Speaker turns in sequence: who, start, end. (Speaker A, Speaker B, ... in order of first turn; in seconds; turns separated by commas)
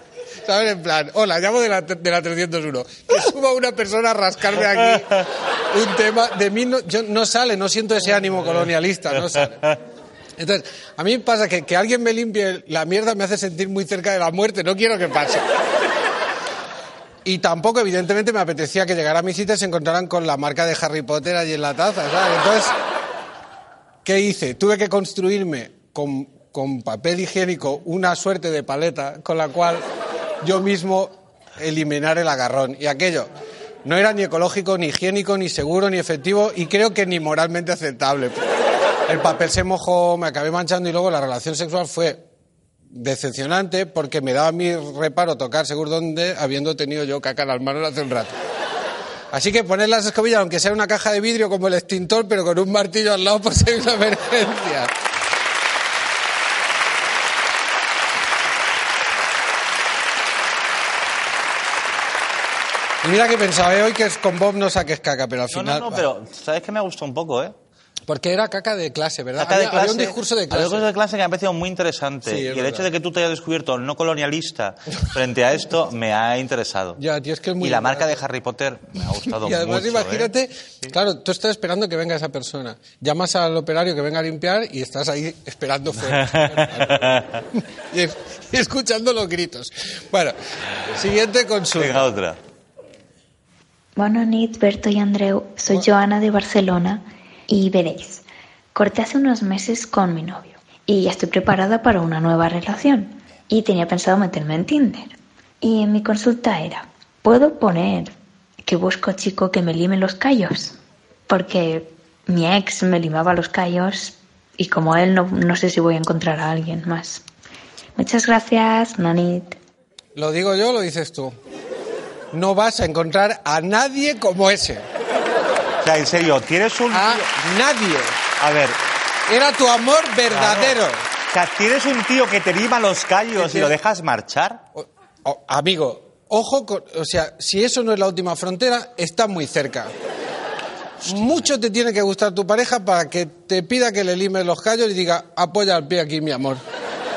Speaker A: 0.4-9.7, Speaker A: 10.4-15.5, Speaker A: 17.2-22.7, Speaker A: 24.0-29.8, Speaker A: 30.4-33.3, Speaker A: 33.8-38.4, Speaker A: 39.1-42.2, Speaker A: 42.9-48.3, Speaker A: 49.3-54.9, Speaker A: 63.0-66.0, Speaker B: 65.5-67.5, Speaker A: 68.1-70.9, Speaker B: 69.3-77.0, Speaker A: 72.2-72.9, Speaker A: 77.0-78.2, Speaker B: 77.6-80.3, Speaker A: 79.3-92.1, Speaker B: 86.1-87.4, Speaker B: 91.8-92.4, Speaker C: 94.0-108.1, Speaker C: 108.6-110.8, Speaker C: 111.3-117.2, Speaker C: 118.0-119.5, Speaker A: 120.1-121.3, Speaker A: 122.3-124.8, Speaker B: 125.8-127.2, Speaker A: 126.9-128.2, Speaker B: 128.4-128.8, Speaker A: 129.3-131.0, Speaker B: 130.3-130.8, Speaker B: 131.3-134.6, Speaker A: 133.3-133.7, Speaker A: 134.7-139.9, Speaker B: 141.0-141.5, Speaker A: 141.0-146.6